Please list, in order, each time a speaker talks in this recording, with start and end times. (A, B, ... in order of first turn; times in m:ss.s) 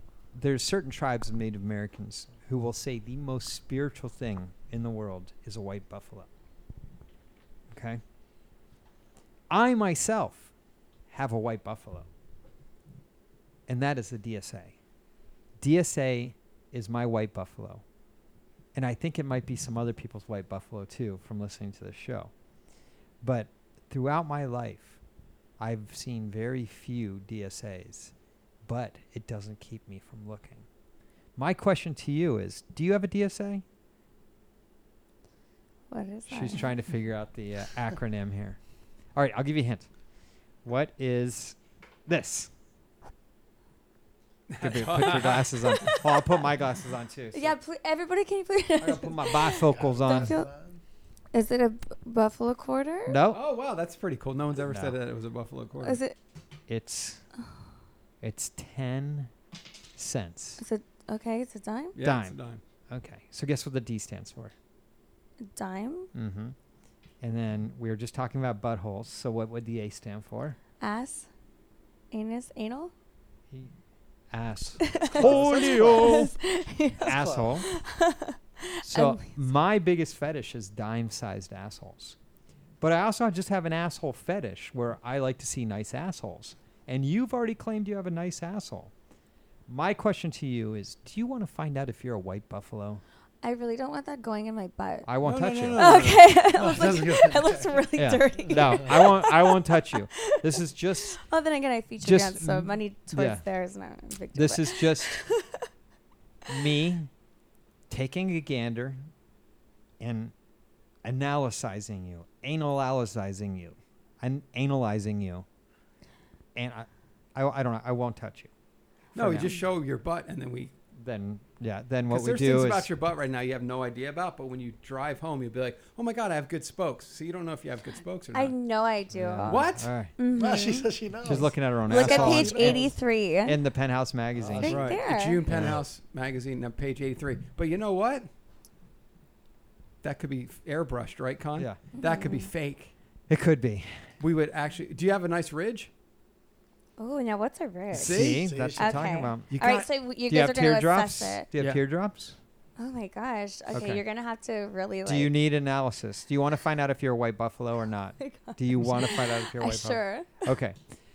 0:00.3-0:06.3 A
0:07.7-0:08.0 A
0:09.5-0:10.5 A
0:11.1-0:12.1 A
0:13.7-0:14.8 A
0:15.6-0:17.8 A
0:18.7-0:22.3 A
0:23.2-0:25.0 A
0:25.6-0:28.1 A
0:28.6-0:30.6 A
0:31.4-0:33.6 A
0:35.9-0:36.7 B
0:36.3-0:38.6 A
0:39.1-0:39.9 A
0:40.6-0:42.5 A
0:44.5-0:46.0 C
0:44.6-0:47.6 A
0:47.3-0:50.5 B
0:48.8-0:50.4 A
0:49.5-0:50.8 D
0:51.3-0:53.2 B
0:53.1-0:53.4 A
0:53.3-0:56.0 C
0:54.6-0:55.0 A
0:55.8-0:56.2 B
0:56.7-0:57.2 A
0:58.2-0:59.3 A
1:00.0-1:00.6 A
1:00.6-1:01.9 B
1:01.9-1:02.6 C
1:02.0-1:02.4 A
1:02.9-1:04.5 A
1:05.4-1:06.1 B
1:06.1-1:06.6 A
1:07.2-1:10.6 A
1:10.8-1:11.3 B
1:12.1-1:12.9 B
1:14.3-1:16.3 A
1:14.9-1:19.3 B
1:15.1-1:16.4 D
1:17.0-1:17.7 A
1:17.0-1:17.6 D
1:18.8-1:22.2 A
1:22.8-1:28.9 A
1:29.7-1:33.0 A
1:33.4-1:35.1 B
1:35.0-1:36.0 A
1:35.2-1:36.3 C
1:35.8-1:40.6 B
1:36.4-1:37.9 D
1:38.0-1:41.2 A
1:41.1-1:45.6 B
1:42.0-1:43.4 A
1:44.3-1:45.2 A
1:46.5-1:47.1 A
1:47.9-1:49.0 A
1:50.0-1:50.3 A
1:51.0-1:55.4 A
1:56.5-1:58.5 A
1:59.1-1:59.5 A
1:59.1-2:00.7 C
2:00.9-2:02.9 A
2:02.1-2:08.5 C
2:08.3-2:10.9 B
2:09.1-2:10.1 A
2:09.5-2:09.9 C
2:10.3-2:12.9 D
2:11.2-2:12.9 A
2:11.9-2:13.6 B
2:13.4-2:15.8 A
2:14.4-2:14.9 D
2:14.6-2:15.4 B
2:14.7-2:18.3 C
2:20.0-2:22.9 C
2:22.0-2:22.5 B
2:23.3-2:24.0 A
2:24.2-2:25.9 C
2:27.0-2:31.5 B
2:27.9-2:32.4 A
2:28.0-2:29.2 D
2:32.8-2:35.3 B
2:33.7-2:34.0 A
2:35.0-2:40.8 A
2:38.2-2:40.3 B